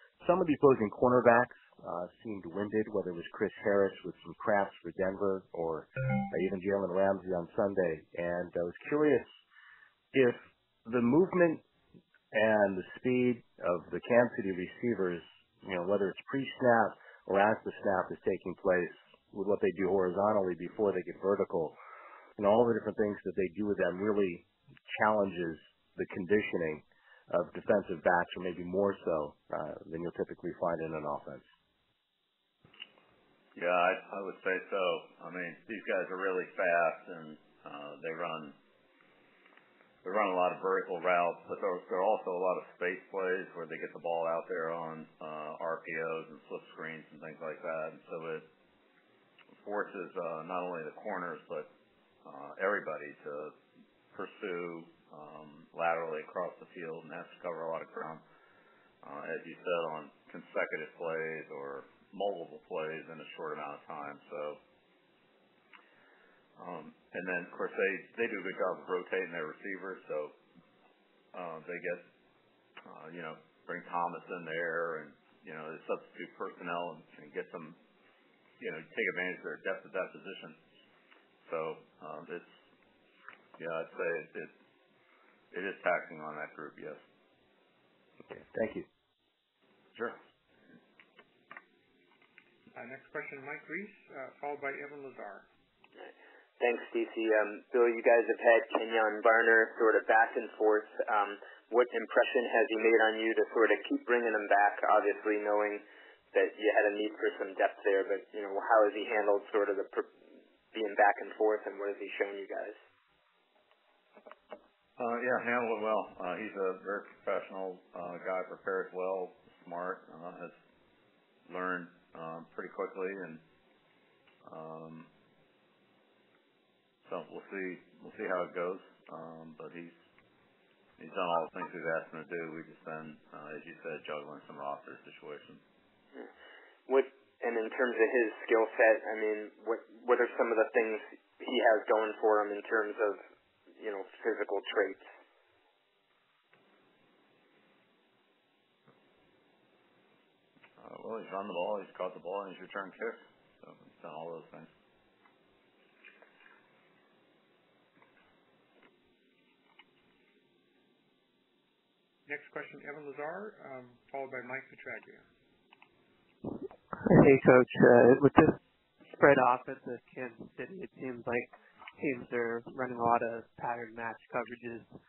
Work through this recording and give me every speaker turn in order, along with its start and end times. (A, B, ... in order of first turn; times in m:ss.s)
0:00.2-0:09.3 A
0:10.1-0:11.6 A
0:12.3-0:21.8 A
0:22.4-0:31.4 A
0:33.6-0:38.6 B
0:40.0-0:48.5 B
0:49.6-0:51.7 B
0:52.2-0:53.6 B
0:54.1-0:58.2 B
0:59.0-1:04.6 B
1:06.6-1:10.3 B
1:11.3-1:12.0 B
1:12.8-1:17.8 B
1:18.6-1:20.6 B
1:21.4-1:22.6 B
1:23.6-1:24.5 B
1:25.5-1:27.0 B
1:28.3-1:28.9 A
1:32.8-1:35.5 C
1:36.0-1:50.1 D
1:50.7-1:52.8 D
1:55.0-2:00.6 B
2:01.5-2:03.4 B
2:04.4-2:05.1 B
2:07.0-2:10.0 B
2:11.0-2:15.6 B
2:16.9-2:23.2 D
2:23.8-2:25.0 D
2:30.8-2:34.7 B
2:42.3-2:45.3 C
2:47.0-2:48.6 E
2:49.1-2:54.9 E